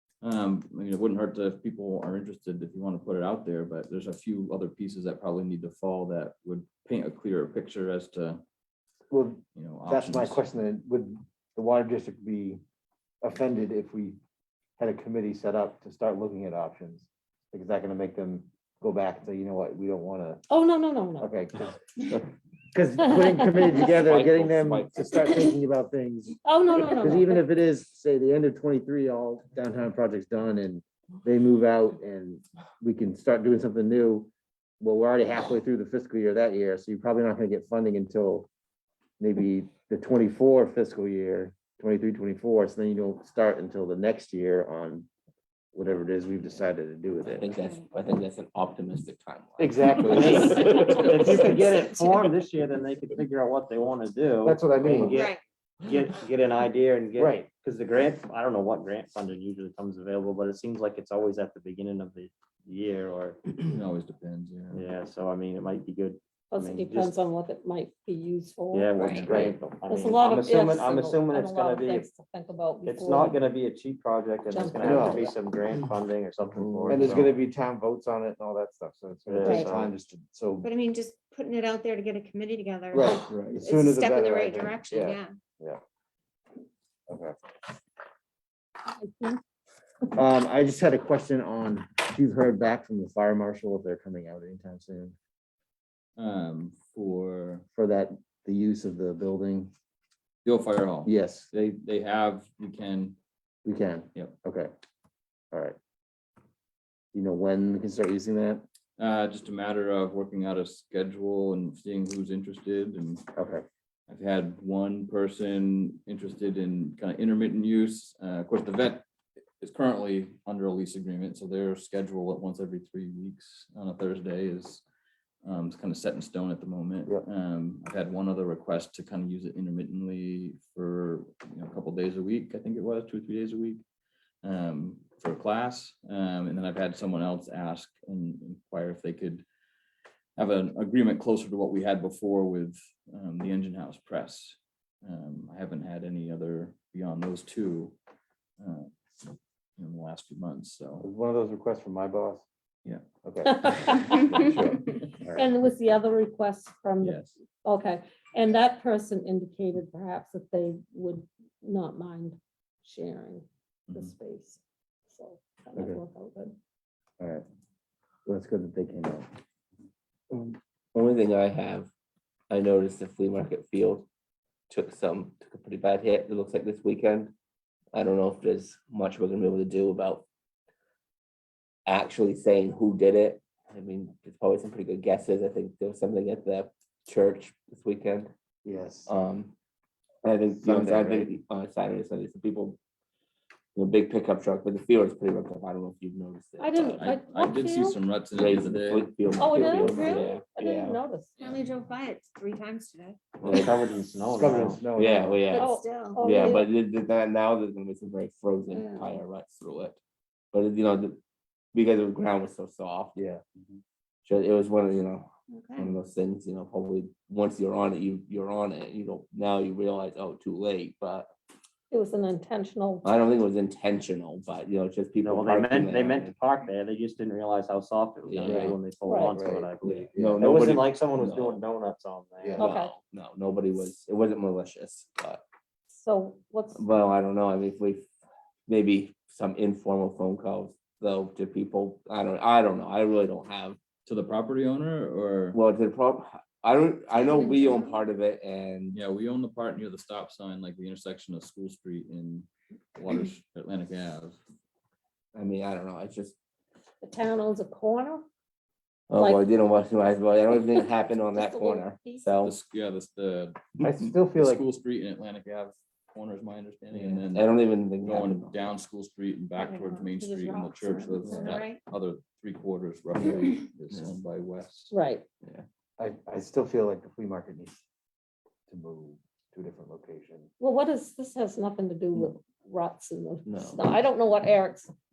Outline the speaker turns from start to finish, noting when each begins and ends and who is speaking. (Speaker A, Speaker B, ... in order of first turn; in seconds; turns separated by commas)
Speaker A: 0.2-8.4, Speaker B: 9.1-12.6, Speaker A: 9.6-10.4, Speaker B: 13.2-14.2, Speaker B: 14.8-20.4, Speaker C: 20.5-21.4, Speaker B: 21.2-22.2, Speaker B: 22.7-26.4, Speaker C: 23.0-23.9, Speaker D: 23.9-25.3, Speaker C: 26.4-27.4, Speaker B: 26.9-38.5, Speaker B: 39.2-45.1, Speaker B: 45.7-47.6, Speaker D: 47.2-51.5, Speaker E: 47.6-47.8, Speaker B: 49.6-50.7, Speaker F: 50.1-63.4, Speaker B: 54.4-55.2, Speaker E: 55.1-55.4, Speaker B: 57.2-57.5, Speaker A: 63.7-64.8, Speaker F: 64.7-67.2, Speaker C: 66.5-73.4, Speaker F: 68.7-72.1, Speaker F: 72.8-77.4, Speaker C: 74.5-75.3, Speaker B: 74.8-75.3, Speaker D: 76.6-76.9, Speaker B: 76.9-80.7, Speaker F: 79.3-79.9, Speaker C: 79.5-79.7, Speaker E: 80.6-85.3, Speaker B: 82.9-85.8, Speaker D: 83.3-83.6, Speaker B: 87.1-87.3, Speaker C: 88.9-89.4, Speaker B: 90.1-95.2, Speaker A: 96.2-97.6, Speaker B: 97.7-99.7, Speaker A: 100.5-103.2, Speaker B: 101.0-101.5, Speaker B: 103.7-104.7, Speaker B: 107.1-108.6, Speaker A: 109.0-113.3, Speaker B: 113.3-113.7, Speaker A: 114.1-119.0, Speaker A: 119.6-124.8, Speaker A: 125.4-133.8, Speaker A: 134.4-139.4, Speaker A: 140.4-147.9, Speaker A: 148.6-148.9, Speaker A: 149.8-151.1, Speaker B: 151.0-152.4, Speaker B: 153.2-155.5, Speaker C: 153.4-154.5, Speaker C: 155.3-166.6, Speaker A: 157.0-157.4, Speaker A: 163.9-164.1, Speaker B: 168.3-169.2, Speaker D: 170.9-171.9, Speaker D: 172.5-174.1, Speaker D: 174.7-177.3, Speaker D: 177.9-180.2, Speaker D: 181.9-188.3, Speaker B: 188.6-189.1, Speaker D: 189.1-189.5, Speaker D: 190.2-192.8, Speaker B: 190.6-191.3, Speaker D: 193.8-197.0, Speaker C: 196.6-198.0, Speaker A: 196.9-199.7, Speaker D: 198.3-201.0, Speaker C: 199.3-201.5, Speaker E: 201.4-203.4, Speaker F: 203.4-204.9, Speaker D: 203.4-203.7, Speaker B: 204.3-205.4, Speaker D: 204.9-210.0, Speaker E: 205.5-206.6, Speaker C: 205.5-206.7, Speaker C: 208.7-209.1, Speaker D: 210.5-211.2, Speaker D: 211.7-213.2, Speaker B: 213.2-213.8, Speaker D: 214.2-221.3, Speaker E: 215.5-215.9, Speaker C: 221.9-223.1, Speaker D: 223.0-226.3, Speaker F: 225.2-232.6, Speaker D: 228.3-228.8, Speaker B: 228.4-228.8, Speaker C: 229.0-229.5, Speaker B: 229.3-230.5, Speaker D: 229.8-231.6, Speaker B: 232.4-232.7, Speaker C: 232.6-232.9, Speaker D: 232.6-235.4, Speaker C: 235.9-236.8, Speaker D: 236.8-238.1, Speaker D: 238.7-243.8, Speaker A: 244.1-245.6, Speaker D: 245.5-249.0, Speaker A: 248.9-254.4, Speaker D: 255.3-256.4, Speaker C: 257.0-258.2, Speaker D: 259.1-262.5, Speaker C: 259.1-259.5, Speaker C: 260.7-262.3, Speaker A: 262.4-267.5, Speaker B: 263.8-264.6, Speaker D: 267.3-268.5, Speaker A: 268.0-274.9, Speaker E: 269.6-270.1, Speaker C: 270.1-270.9, Speaker E: 270.9-271.8, Speaker C: 274.9-275.3, Speaker B: 276.0-277.8, Speaker B: 278.7-280.5, Speaker C: 280.6-284.9, Speaker D: 283.5-283.8